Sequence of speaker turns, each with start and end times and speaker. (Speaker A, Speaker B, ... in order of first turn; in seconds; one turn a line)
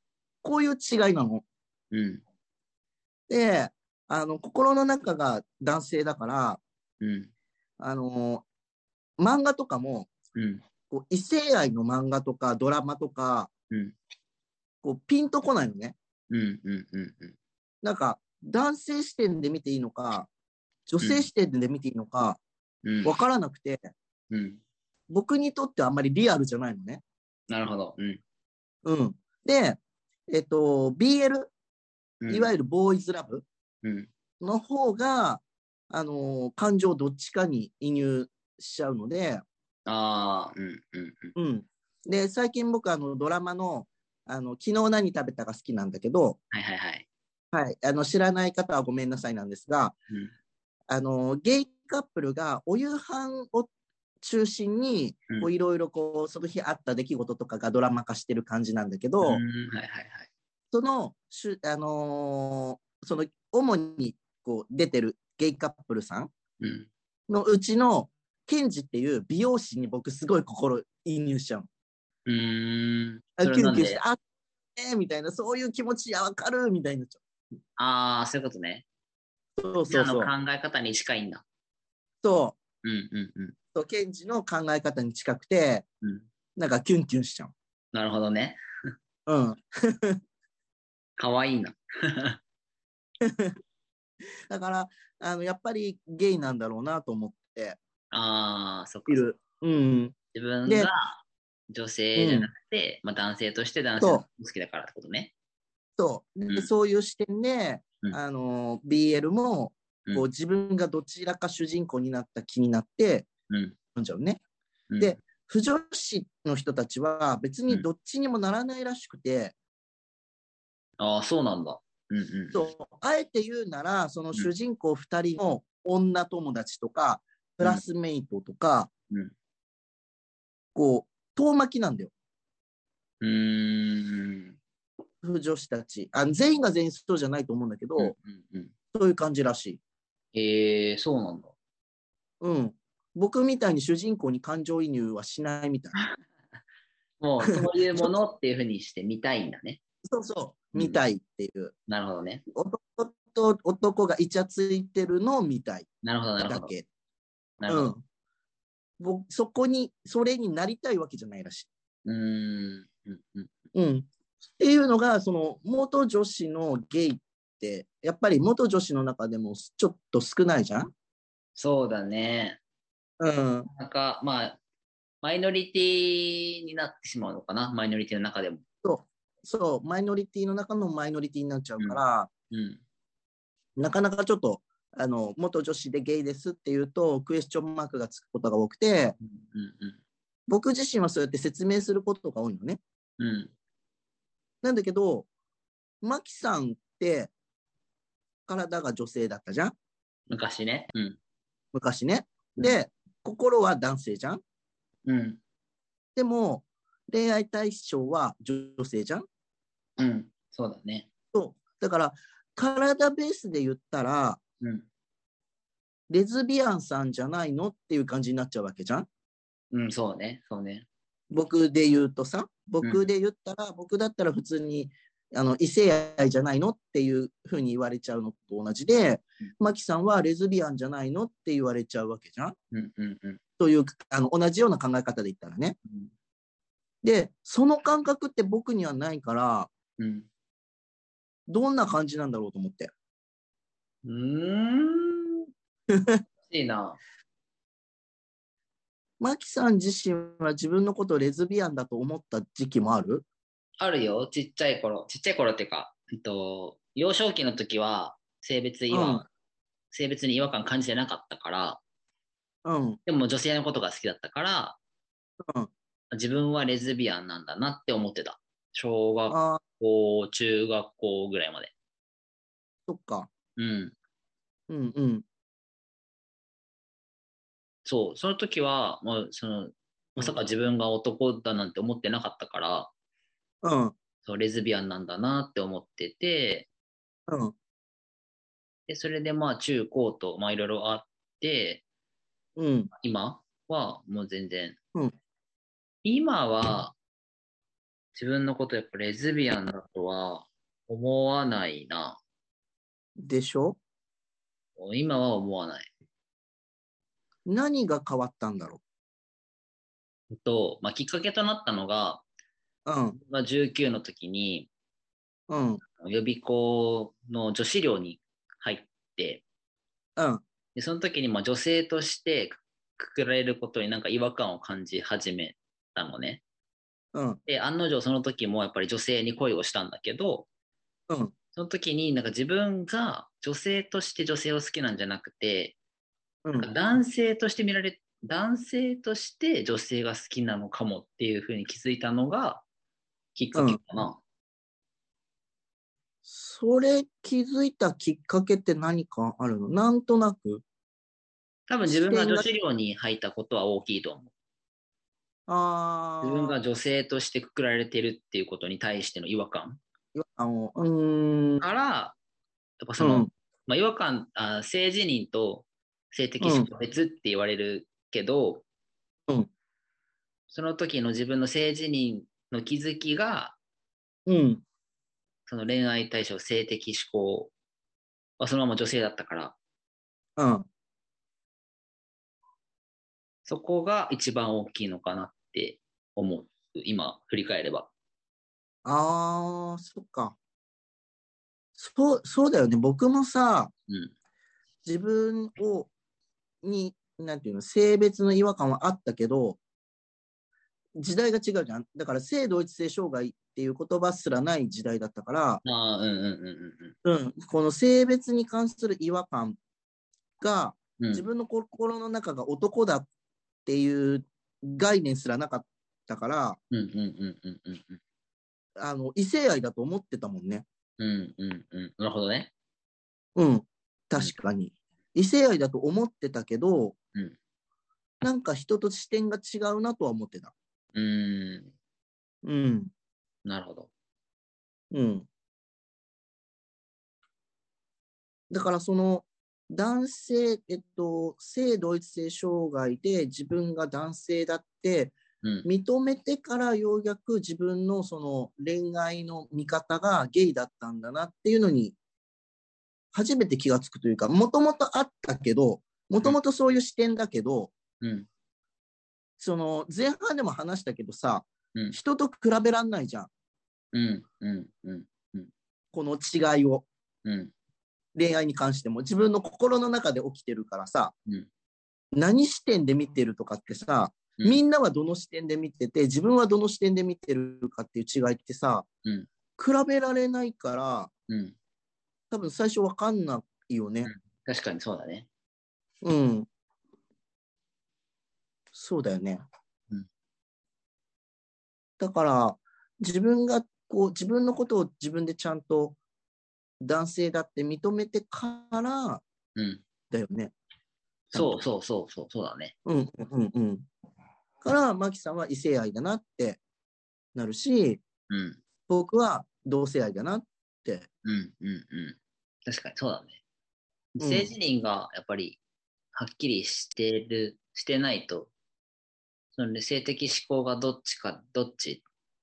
Speaker A: 0.4-1.4
Speaker B: 1.9-2.2
Speaker A: 3.3-6.6
Speaker B: 7.0-7.3
Speaker A: 7.8-8.4
Speaker A: 9.2-10.1
Speaker B: 10.3-10.6
Speaker A: 10.9-13.5
Speaker A: 14.8-15.9
Speaker B: 16.3-17.3
Speaker A: 17.8-20.3
Speaker A: 20.9-22.4
Speaker B: 21.0-21.3
Speaker B: 22.8-23.1
Speaker A: 23.0-23.9
Speaker B: 24.3-24.6
Speaker A: 25.1-27.0
Speaker B: 27.5-28.2
Speaker A: 28.8-29.8
Speaker A: 30.3-31.5
Speaker B: 32.2-32.5
Speaker A: 32.3-33.4
Speaker A: 34.4-39.4
Speaker B: 39.9-41.3
Speaker A: 41.4-46.4
Speaker B: 46.5-47.1
Speaker A: 47.5-50.0
Speaker A: 50.9-53.7
Speaker A: 54.2-59.4
Speaker B: 59.2-60.3
Speaker A: 60.7-66.3
Speaker B: 66.6-66.9
Speaker A: 67.3-71.7
Speaker B: 72.3-74.0
Speaker A: 73.4-74.2
Speaker A: 74.8-77.2
Speaker B: 77.8-78.8
Speaker A: 79.6-80.3
Speaker B: 79.9-81.4
Speaker A: 82.2-82.5
Speaker B: 82.8-83.5
Speaker A: 83.7-85.8
Speaker A: 86.6-87.5
Speaker B: 87.9-88.6
Speaker A: 89.3-90.2
Speaker B: 91.2-92.4
Speaker A: 93.2-93.5
Speaker A: 94.5-97.8
Speaker B: 98.1-99.3
Speaker A: 99.1-100.1
Speaker B: 100.3-101.2
Speaker B: 101.7-105.3
Speaker A: 102.2-102.5
Speaker A: 106.0-113.3
Speaker B: 113.5-113.8
Speaker A: 114.0-114.4
Speaker B: 114.9-115.2
Speaker A: 115.0-119.5
Speaker B: 121.0-122.6
Speaker A: 122.5-128.9
Speaker A: 130.7-132.1
Speaker B: 133.2-134.6
Speaker A: 135.2-138.1
Speaker B: 138.0-138.7
Speaker A: 138.9-139.8
Speaker B: 140.3-141.5
Speaker A: 142.4-145.9
Speaker B: 147.2-149.8
Speaker A: 150.1-151.7
Speaker B: 150.7-151.0
Speaker B: 151.9-152.4
Speaker A: 152.5-155.9
Speaker B: 156.0-156.7
Speaker A: 156.4-156.8
Speaker B: 157.6-157.9
Speaker A: 157.7-158.0
Speaker A: 159.0-161.7
Speaker B: 162.0-163.5
Speaker A: 163.7-170.9
Speaker B: 171.6-172.6
Speaker A: 173.2-173.7
Speaker B: 173.7-174.6
Speaker B: 175.2-178.6
Speaker A: 178.8-182.3
Speaker B: 182.5-182.8
Speaker A: 183.8-189.2
Speaker B: 189.2-190.0
Speaker A: 190.5-192.8
Speaker B: 193.2-193.5
Speaker A: 194.6-195.3
Speaker A: 196.0-197.3
Speaker A: 198.5-199.7
Speaker B: 200.3-201.2
Speaker A: 201.7-204.4
Speaker B: 205.1-205.4
Speaker A: 206.1-209.2
Speaker B: 210.0-211.1
Speaker A: 211.3-214.4
Speaker A: 216.1-219.1
Speaker B: 219.7-220.8
Speaker A: 221.3-232.5
Speaker B: 232.7-233.4
Speaker A: 233.6-235.8
Speaker A: 237.0-239.7
Speaker B: 240.0-240.3
Speaker A: 241.5-242.9
Speaker B: 244.0-245.4
Speaker A: 245.9-246.2
Speaker B: 246.5-247.0
Speaker A: 249.2-253.2
Speaker B: 253.8-259.2
Speaker A: 258.9-259.3
Speaker B: 259.9-261.8
Speaker A: 262.6-263.0
Speaker B: 263.1-264.8
Speaker A: 265.4-265.7
Speaker B: 266.1-271.7
Speaker A: 269.3-269.6
Speaker A: 272.9-273.3
Speaker B: 273.6-273.9
Speaker A: 274.7-275.2
Speaker B: 277.9-282.9
Speaker A: 283.6-283.9
Speaker B: 284.2-286.7
Speaker A: 287.3-287.5
Speaker B: 288.9-291.8
Speaker A: 292.6-292.9
Speaker B: 293.0-294.8
Speaker B: 296.0-296.9
Speaker B: 298.1-302.2
Speaker A: 303.2-303.8
Speaker B: 304.8-305.9
Speaker A: 307.4-308.8
Speaker B: 310.3-312.2
Speaker A: 312.9-313.2
Speaker B: 313.3-314.7
Speaker A: 315.5-315.8
Speaker B: 316.0-319.4
Speaker A: 320.2-320.4
Speaker B: 320.7-326.4
Speaker A: 327.1-327.4
Speaker B: 327.5-330.5
Speaker B: 331.6-335.8
Speaker A: 336.4-336.7
Speaker B: 336.6-342.6
Speaker B: 343.4-344.2
Speaker A: 343.5-343.8
Speaker A: 346.2-350.6
Speaker B: 351.7-354.3
Speaker A: 351.9-352.4
Speaker A: 355.5-356.6
Speaker B: 356.2-359.8
Speaker A: 360.1-361.6
Speaker B: 361.6-362.2
Speaker B: 362.8-368.6
Speaker A: 363.0-363.3
Speaker A: 366.4-366.7
Speaker B: 370.5-373.6
Speaker A: 374.3-374.6
Speaker B: 375.5-377.5
Speaker B: 378.4-379.6
Speaker A: 380.4-380.7
Speaker B: 383.4-387.9
Speaker A: 388.8-390.4
Speaker A: 391.8-393.7
Speaker A: 394.8-395.9
Speaker A: 396.6-399.6
Speaker A: 401.0-405.6
Speaker B: 405.6-406.9
Speaker A: 407.0-409.6
Speaker A: 410.4-413.1
Speaker B: 411.0-411.2
Speaker A: 413.6-416.6
Speaker B: 416.7-418.0
Speaker A: 418.8-420.6
Speaker B: 421.0-422.5
Speaker A: 423.4-426.9
Speaker A: 428.2-430.5
Speaker B: 430.9-431.7
Speaker A: 432.4-432.9
Speaker B: 433.4-433.9
Speaker A: 434.9-435.3
Speaker A: 438.5-451.9
Speaker A: 453.1-457.7
Speaker B: 458.0-458.3
Speaker A: 459.4-463.3
Speaker B: 463.9-465.5
Speaker A: 465.9-466.9
Speaker B: 467.2-467.5
Speaker A: 468.1-471.1
Speaker A: 472.1-478.8
Speaker A: 479.6-481.1
Speaker B: 481.3-481.5
Speaker A: 482.3-484.1
Speaker B: 484.0-485.3
Speaker A: 486.0-486.5
Speaker A: 488.7-489.4
Speaker A: 492.0-496.0
Speaker A: 496.8-499.2
Speaker B: 499.6-499.8
Speaker A: 500.1-500.5
Speaker A: 501.3-501.6
Speaker B: 501.3-502.7
Speaker A: 502.9-503.9
Speaker A: 504.6-506.6
Speaker A: 507.3-508.0
Speaker B: 508.3-508.6
Speaker A: 508.9-511.1
Speaker B: 511.2-513.4
Speaker B: 514.2-515.6
Speaker A: 514.2-514.5
Speaker B: 516.1-518.5
Speaker B: 519.5-522.0